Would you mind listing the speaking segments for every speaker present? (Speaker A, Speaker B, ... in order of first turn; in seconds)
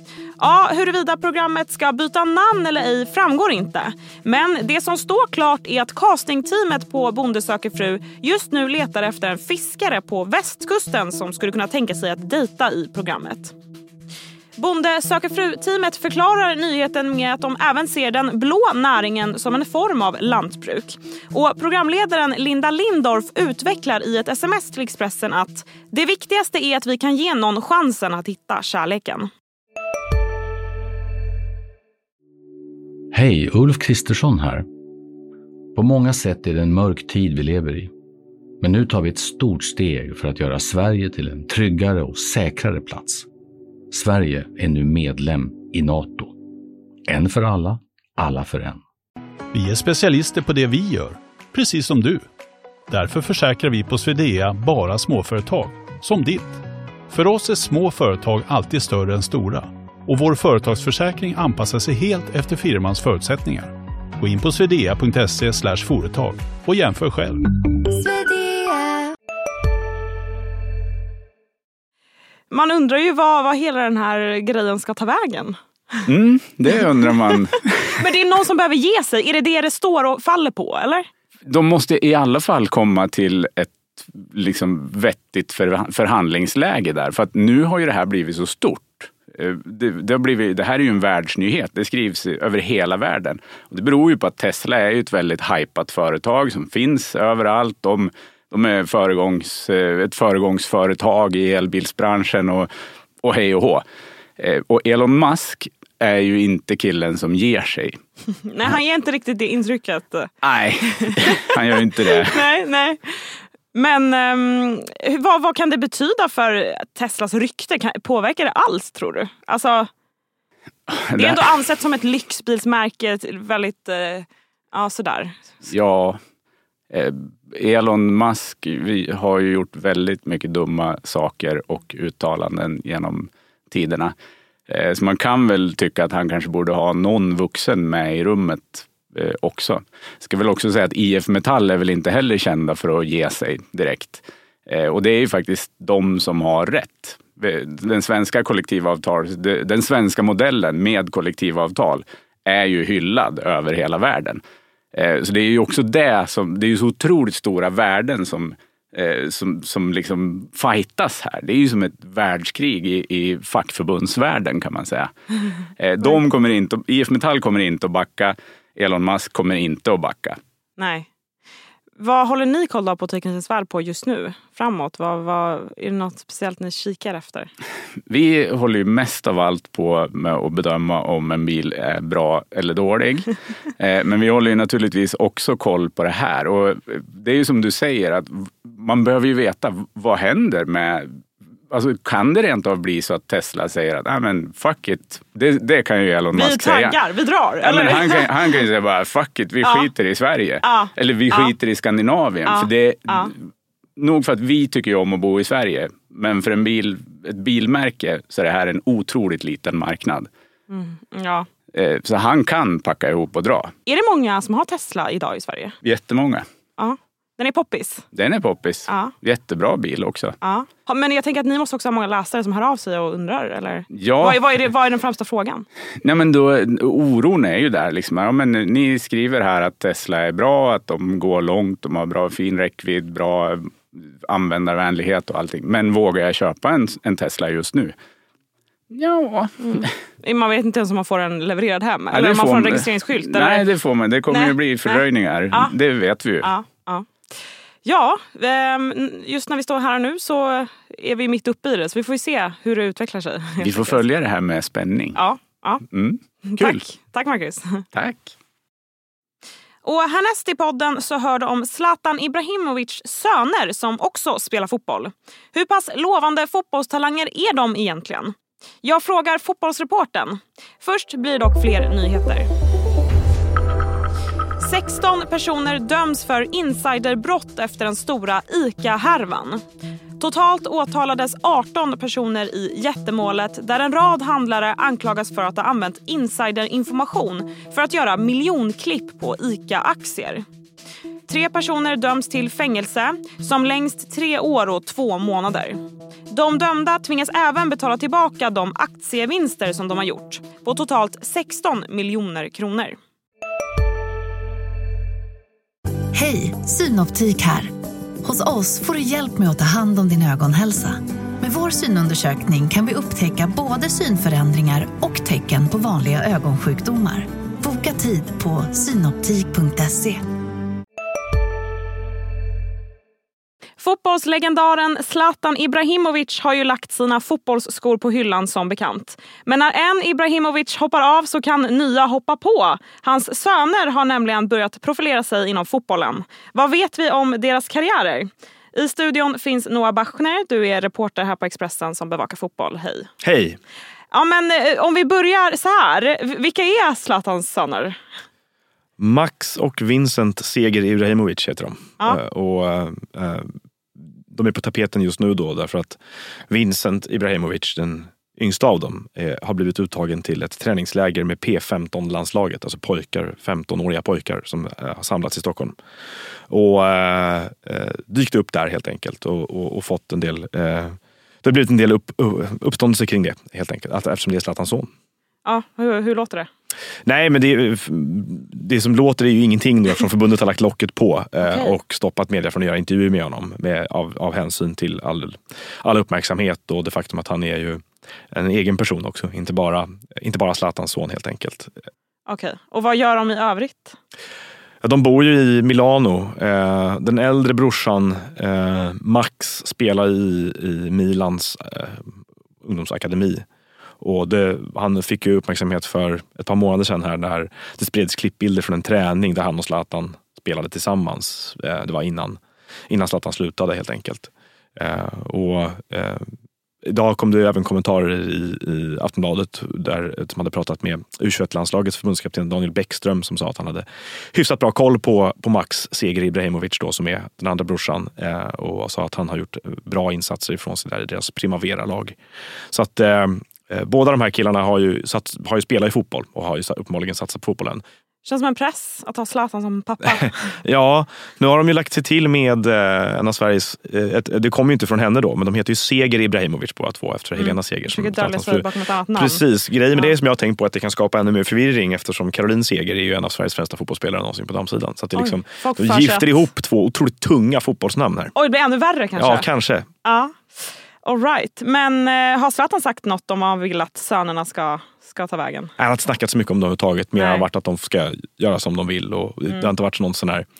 Speaker A: 0.4-13.5, 14.6-29.3, 72.5-76.0, 78.0-81.1, 108.4-110.3, 111.0-111.5, 112.2-119.9, 121.2-125.4, 170.8-171.1, 172.0-177.5, 196.3-198.3, 199.6-199.9, 200.6-201.5, 202.4-203.3, 210.7-211.5, 213.8-215.8, 216.8-218.1, 218.9-219.1, 220.4-225.7, 239.6-243.7, 244.3-245.7, 246.4-247.1, 247.8-254.0, 255.1-255.8, 256.4-257.8, 259.8-272.5, 274.6-279.6, 280.2-290.4, 291.3-303.0, 323.8-343.1, 344.1-348.0, 375.4-376.5, 381.4-381.7, 392.2-394.0, 438.2-440.5, 447.4-449.4, 455.1-456.4, 458.3-459.5, 460.0-465.7, 467.1-467.4
Speaker B: 33.1-34.6, 35.7-37.9, 38.6-43.3, 43.9-46.4, 47.1-48.8
Speaker C: 49.5-52.3, 52.9-67.4
Speaker D: 68.1-68.7, 306.1-307.7, 308.2-320.2
Speaker E: 76.1-77.9, 81.5-102.7, 103.2-103.8, 104.4-108.0, 110.4-112.5, 120.9-121.4, 125.7-126.2, 126.9-134.1, 134.7-154.4, 154.9-165.1, 165.8-170.4, 178.1-191.1, 191.7-197.0, 197.6-203.3, 204.0-210.3, 211.7-213.7, 215.8-216.4, 218.1-220.3, 223.9-224.4, 226.0-237.9, 238.9-239.9, 242.1-246.5, 253.6-255.2, 255.9-256.8, 257.9-258.3
Speaker F: 343.2-343.6, 349.0-353.5, 354.3-356.0, 356.5-365.7, 366.5-374.9, 377.0-391.7, 394.8-402.1, 402.6-403.4, 404.0-416.2, 416.8-432.2, 432.7-437.8, 440.2-458.3, 459.2-459.9, 465.8-470.4